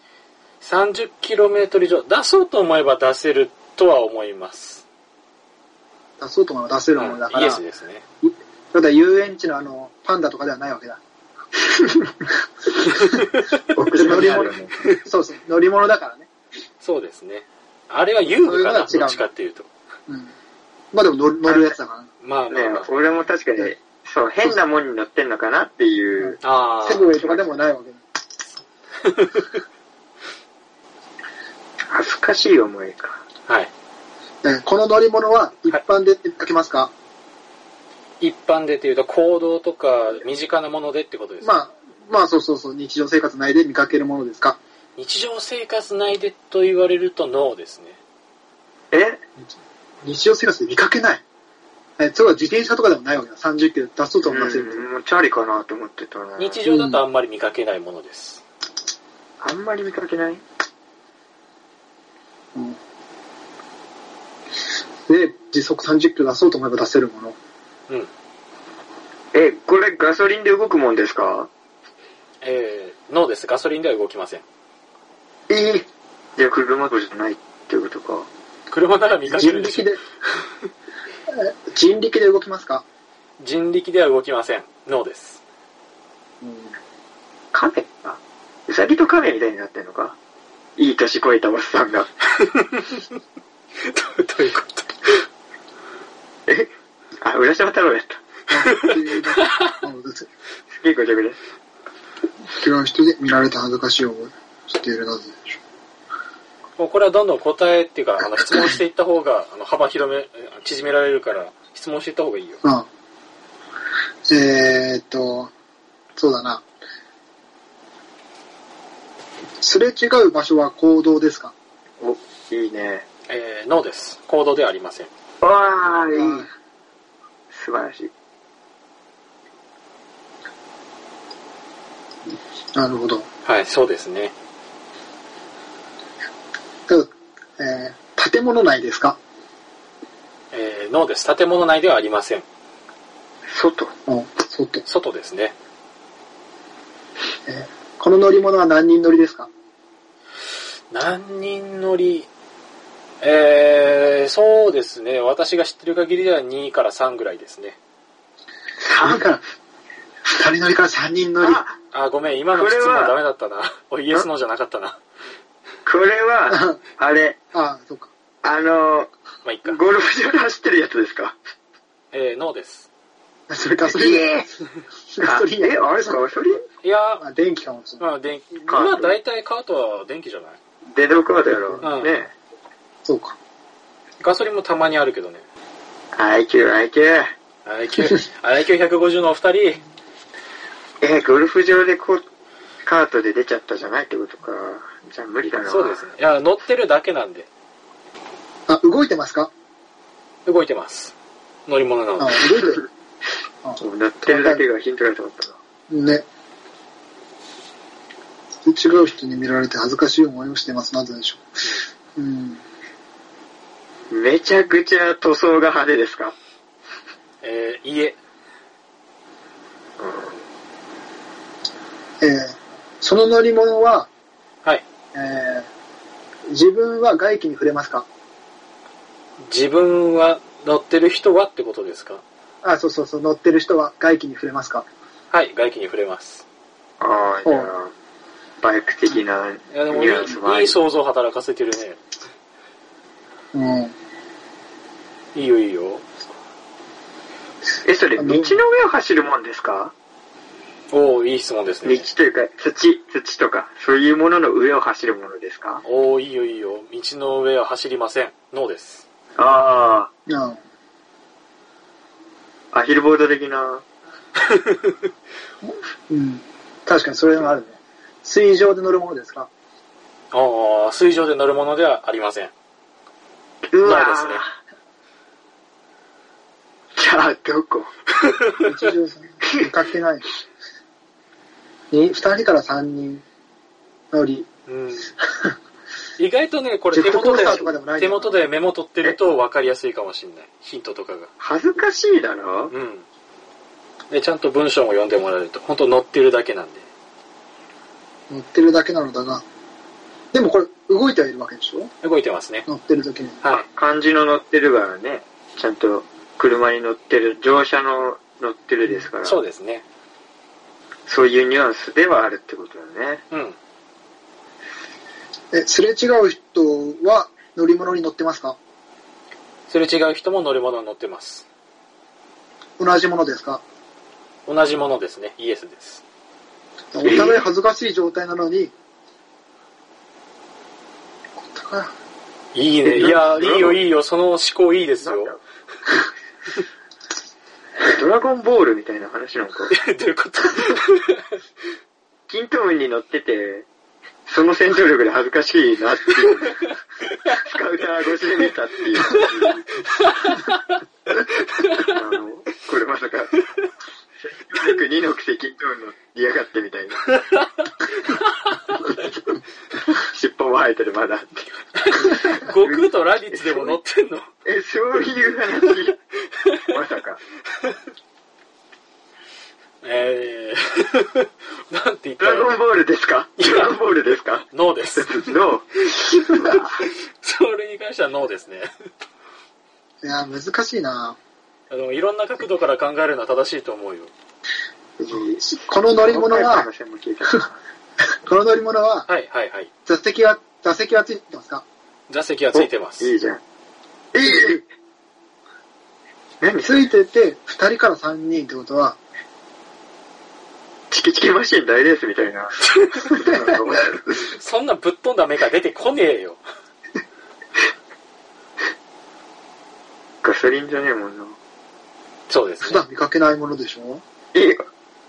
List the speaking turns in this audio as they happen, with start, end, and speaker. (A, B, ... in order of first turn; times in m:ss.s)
0:00.6-0:04.8 A
0:06.2-0:07.6 B
0:07.0-0:08.0 A
0:08.2-0:11.0 B
0:11.9-0:12.3 B
0:13.0-0:13.6 A
0:13.7-0:14.8 C
0:13.9-0:16.3 B
0:16.8-0:19.7 A
0:18.4-0:19.2 B
0:20.1-0:20.3 B
0:20.9-0:22.1 B
0:21.5-0:21.7 C
0:22.2-0:22.9 A
0:22.5-0:26.4 C
0:26.2-0:28.0 B
0:26.4-0:27.2 A
0:27.2-0:27.6 C
0:29.0-0:29.6 A
0:31.9-0:33.2 C
0:33.4-0:33.7 A
0:34.4-0:36.9 B
0:38.2-0:41.5 A
0:41.4-0:44.6 B
0:45.0-0:48.0 A
0:48.9-0:49.2 C
0:50.0-0:51.2 B
0:52.0-0:54.9 B
0:54.2-0:56.6 C
0:56.4-0:58.4 A
0:56.6-0:57.0 B
0:59.4-1:00.4 C
1:05.1-1:07.4 B
1:09.3-1:11.5 C
1:12.4-1:14.4 A
1:15.5-1:15.8 B
1:16.4-1:18.3 C
1:18.7-1:19.9 A
1:19.2-1:20.0 B
1:21.3-1:22.8 B
1:23.4-1:25.4 A
1:26.4-1:26.7 B
1:27.5-1:30.2 C
1:30.8-1:32.1 C
1:32.4-1:33.0 A
1:33.8-1:35.2 A
1:36.5-1:38.2 C
1:38.5-1:40.3 B
1:38.6-1:39.7 A
1:40.7-1:41.4 C
1:42.6-1:45.6 B
1:46.8-1:52.6 A
1:54.3-1:55.5 B
1:56.2-1:56.6 B
1:59.6-2:01.5 B
2:02.0-2:03.0 C
2:03.3-2:05.1 A
2:05.4-2:06.5 C
2:06.1-2:06.5 B
2:07.5-2:08.1 C
2:12.7-2:13.2 B
2:13.4-2:14.3 A
2:16.9-2:19.2 B
2:20.5-2:22.4 A
2:23.5-2:23.9 C
2:24.1-2:24.8 B
2:24.8-2:25.5 A
2:27.5-2:29.5 B
2:30.9-2:32.3 A
2:33.2-2:37.8 A
2:38.8-2:39.2 C
2:39.0-2:39.4 B
2:40.3-2:41.6 B
2:41.4-2:41.7 C
2:41.9-2:45.0 A
2:42.5-2:43.2 C
2:45.8-2:47.4 C
2:46.5-2:46.8 B
2:47.5-2:48.1 B
2:48.4-2:49.1 C
2:49.4-2:49.8 A
2:49.6-2:51.4 C
2:52.1-2:52.9 A
2:53.5-2:54.4 B
2:53.8-2:54.5 C
2:55.1-2:56.2 B
2:55.2-2:56.6 C
2:56.8-2:57.2 A
2:57.2-2:58.1 B
2:58.0-3:00.6 A
2:58.7-2:59.2 C
3:00.9-3:02.3 C
3:01.5-3:01.9 B
3:01.8-3:02.1 A
3:03.0-3:03.4 B
3:04.2-3:05.4 A
3:06.1-3:07.3 C
3:07.6-3:09.8 A
3:11.0-3:12.2 C
3:12.8-3:16.0 C
3:15.6-3:17.5 A
3:18.7-3:19.5 B
3:20.4-3:21.1 A
3:21.7-3:22.5 A
3:22.2-3:22.8 B
3:23.6-3:24.6 B
3:23.8-3:25.6 C
3:25.9-3:26.2 B
3:28.6-3:31.5 B
3:32.2-3:32.6 B
3:34.1-3:36.3 C
3:37.4-3:38.2 A
3:40.0-3:40.3 C
3:42.2-3:44.1 B
3:45.1-3:45.7 B
3:46.5-3:48.0 B
3:49.4-3:52.2 A
3:52.6-3:54.8 B
3:55.3-3:56.4 A
3:57.0-3:57.9 C
3:57.4-3:57.7 B
3:58.6-4:00.8 C
3:59.7-4:02.0 A
4:03.5-4:03.9 B
4:05.3-4:06.0 A
4:07.8-4:09.9 C
4:08.2-4:08.6 B
4:10.9-4:12.0 A
4:11.8-4:15.8 C
4:15.8-4:19.0 A
4:19.4-4:20.1 C
4:20.3-4:20.6 B
4:22.7-4:23.8 C
4:24.5-4:24.9 A
4:25.6-4:29.5 B
4:30.3-4:32.5 A
4:33.7-4:34.5 C
4:33.8-4:34.4 A
4:37.0-4:37.9 C
4:38.6-4:40.3 B
4:41.9-4:43.2 B
4:44.1-4:44.5 B
4:44.7-4:45.1 A
4:45.1-4:45.6 B
4:46.2-4:51.3 A
4:46.9-4:48.5 B
4:51.4-4:52.7 C
4:52.7-4:53.0 A
4:54.1-4:56.8 A
4:58.3-4:59.4 B
5:00.3-5:01.9 B
5:02.0-5:02.7 A
5:02.6-5:03.4 B
5:03.5-5:09.4 C
5:09.2-5:09.8 A
5:11.1-5:13.2 C
5:13.3-5:13.6 A
5:15.5-5:18.6 B
5:19.7-5:21.4 A
5:22.8-5:23.6 B
5:24.4-5:26.0 A
5:26.9-5:28.7 B
5:27.0-5:27.4 C
5:31.4-5:31.9 B
5:32.5-5:35.4 A
5:32.8-5:33.8 C
5:35.0-5:35.4 C
5:37.8-5:39.7 C
5:39.7-5:41.2 A
5:42.3-5:43.7 C
5:44.3-5:46.7 C
5:46.2-5:46.6 A
5:47.3-5:49.8 C
5:49.1-5:50.7 A
5:51.6-5:51.9 A
5:51.7-5:53.3 C
5:54.2-5:57.1 C
5:57.2-5:58.8 A
5:59.9-6:03.8 C
6:01.8-6:04.3 A
6:04.4-6:06.0 C
6:06.6-6:07.2 C
6:09.8-6:12.6 A
6:12.2-6:14.4 C
6:13.4-6:13.8 A
6:14.5-6:15.4 A
6:15.0-6:16.8 C
6:16.3-6:18.7 A
6:20.0-6:21.2 B
6:21.7-6:24.1 A
6:25.0-6:27.5 C
6:25.3-6:26.7 B
6:28.2-6:29.1 B
6:29.1-6:29.7 A
6:29.8-6:31.6 B
6:32.1-6:33.1 A
6:32.5-6:33.4 C
6:34.1-6:34.6 C
6:34.2-6:34.6 B
6:36.4-6:36.9 C
6:36.6-6:39.0 B
6:40.9-6:44.0 C
6:42.8-6:43.0 A
6:44.1-6:46.4 A
6:50.2-6:51.4 C
6:52.3-6:52.8 A
6:52.6-6:54.0 B
6:54.3-6:54.6 C